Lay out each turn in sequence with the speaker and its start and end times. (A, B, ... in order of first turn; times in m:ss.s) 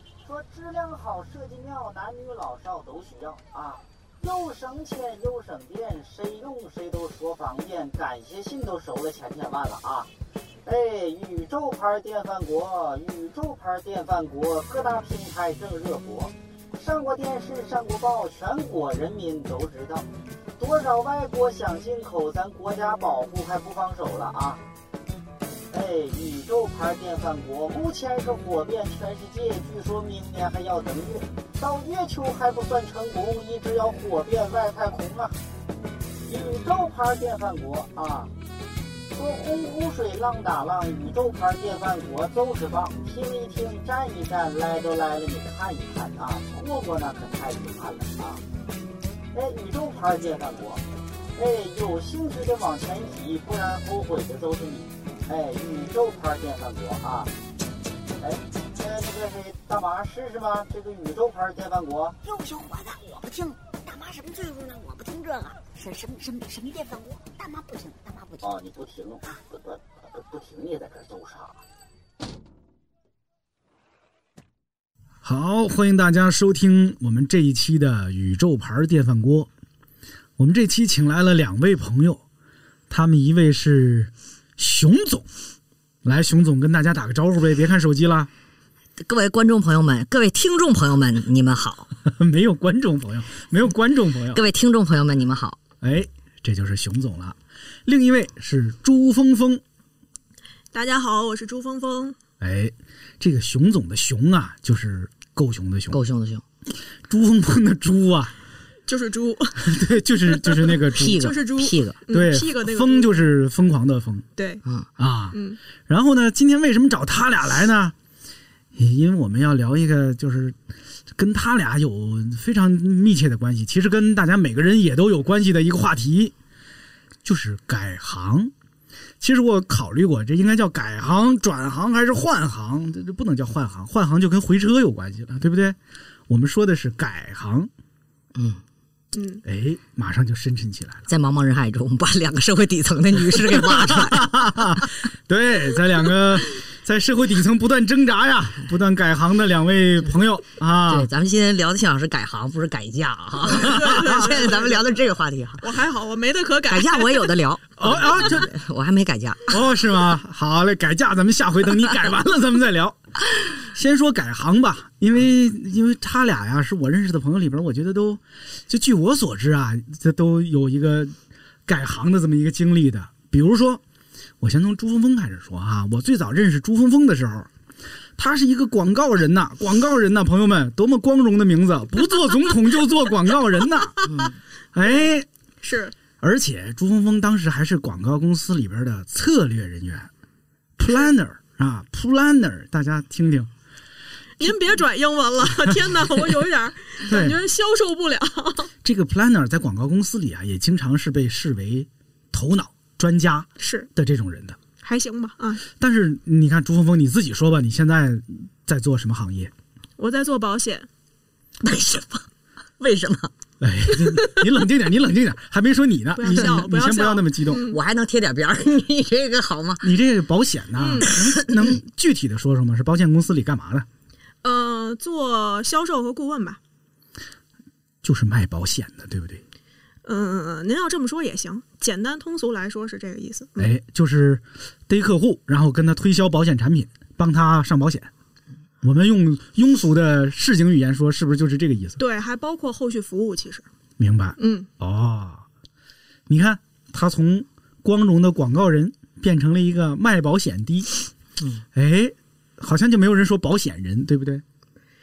0:00.2-0:10.1 A
0:10.6-0:20.0 A
0:20.6-0:24.6 A
0:25.7-0:35.4 A
0:36.3-0:38.3 A
0:39.1-0:48.4 A
0:49.3-0:50.8 A
0:51.4-0:57.3 A
0:58.2-1:02.2 A
1:02.2-1:08.5 B
1:08.4-1:11.6 A
1:15.2-1:19.5 C
1:20.4-1:22.2 C
1:22.9-1:25.3 C
1:26.0-1:28.3 C
1:29.0-1:31.9 D
1:32.0-1:34.4 C
1:34.3-1:35.6 D
1:35.8-1:39.6 C
1:40.7-1:42.2 E
1:42.4-1:46.0 C
1:45.9-1:46.4 D
1:47.1-1:48.3 C
1:48.9-1:49.7 E
1:49.6-1:51.3 C
1:50.3-1:53.2 E
1:51.0-1:52.0 D
1:52.1-1:54.2 C
1:54.4-1:54.6 E
1:55.0-1:58.0 C
1:55.3-1:55.6 E
1:58.7-2:00.6 C
2:01.1-2:06.3 C
2:07.2-2:08.5 C
2:09.2-2:15.8 C
2:16.3-2:17.7 C
2:18.4-2:18.6 D
2:19.1-2:19.4 E
2:19.4-2:21.0 C
2:21.1-2:24.4 D
2:23.4-2:31.1 C
2:30.9-2:35.6 D
2:33.5-2:34.8 E
2:33.7-2:34.2 C
2:35.6-2:38.0 E
2:36.7-2:39.5 D
2:37.8-2:38.5 C
2:39.5-2:43.0 C
2:43.6-2:51.1 C
2:51.7-2:53.8 C
2:54.4-2:57.5 C
2:58.2-3:04.1 C
3:04.1-3:04.4 D
3:04.7-3:05.3 C
3:05.6-3:05.9 E
3:06.2-3:10.1 C
3:10.8-3:13.5 C
3:14.4-3:18.7 E
3:17.1-3:17.4 C
3:18.8-3:24.6 C
3:23.6-3:23.9 E
3:24.8-3:25.6 E
3:25.8-3:29.5 C
3:30.0-3:30.9 E
3:31.6-3:32.3 D
3:32.8-3:33.3 D
3:33.6-3:37.6 C
3:36.2-3:37.8 E
3:37.6-3:39.9 D
3:39.8-3:43.9 C
3:40.8-3:41.1 E
3:44.4-3:46.6 E
3:48.0-3:49.4 C
3:50.0-3:53.7 E
3:53.6-3:58.1 C
3:58.8-4:02.0 C
4:02.0-4:03.6 E
4:04.0-4:05.4 C
4:04.4-4:04.7 E
4:06.3-4:10.9 C
4:11.8-4:14.4 C